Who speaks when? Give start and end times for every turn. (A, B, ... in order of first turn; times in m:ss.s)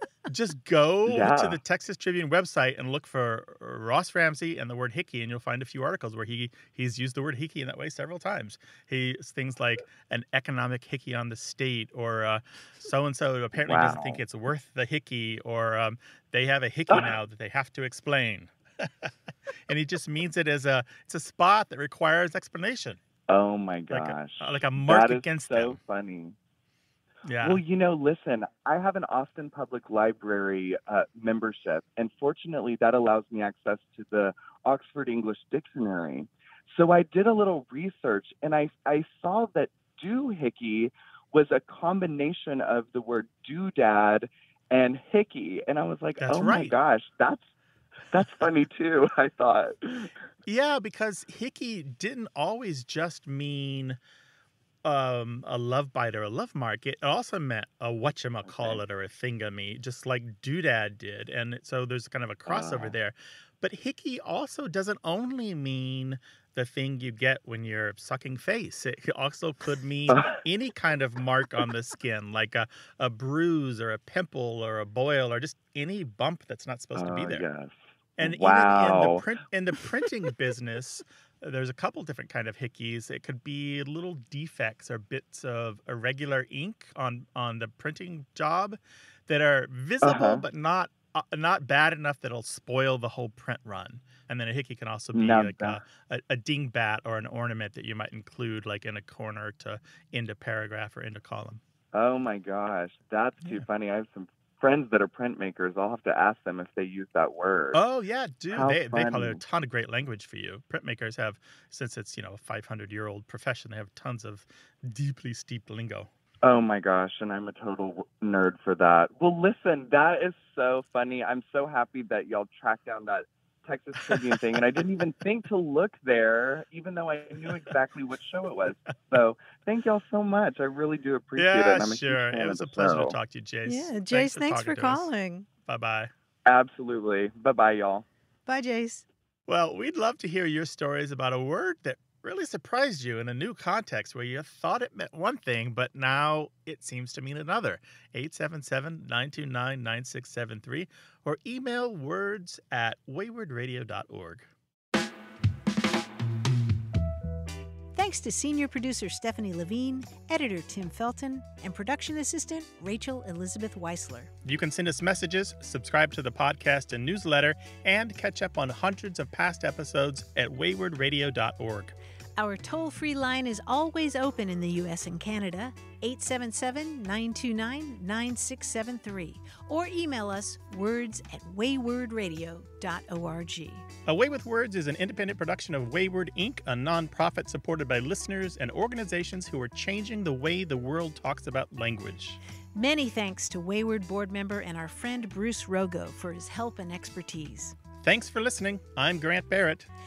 0:00.3-0:19.1 A
0:01.1-0:01.6 B
0:13.6-0:14.2 B
0:19.7-0:23.0 A
0:23.3-0:26.3 B
0:23.9-0:25.8 A
0:27.2-0:27.6 A
0:27.4-0:47.4 B
0:46.2-0:46.7 A
0:48.1-0:50.1 B
0:50.5-0:54.0 A
0:54.8-1:17.4 A
0:58.4-0:58.8 B
1:02.4-1:02.9 B
1:10.1-1:10.4 B
1:16.9-1:19.2 B
1:18.2-1:41.6 A
1:30.0-1:30.4 B
1:35.1-1:35.8 B
1:41.9-1:47.8 B
1:47.7-1:56.1 A
1:48.5-1:49.4 B
1:56.4-2:13.2 B
2:11.4-2:15.1 A
2:13.6-2:15.5 C
2:15.6-2:16.1 A
2:16.4-2:18.0 B
2:18.4-2:19.0 C
2:19.5-2:34.5 A
2:37.9-2:44.3 C
2:44.4-2:51.9 A
2:52.4-3:03.8 C
3:04.0-3:12.4 A
3:12.7-3:17.8 C
3:18.0-3:19.9 A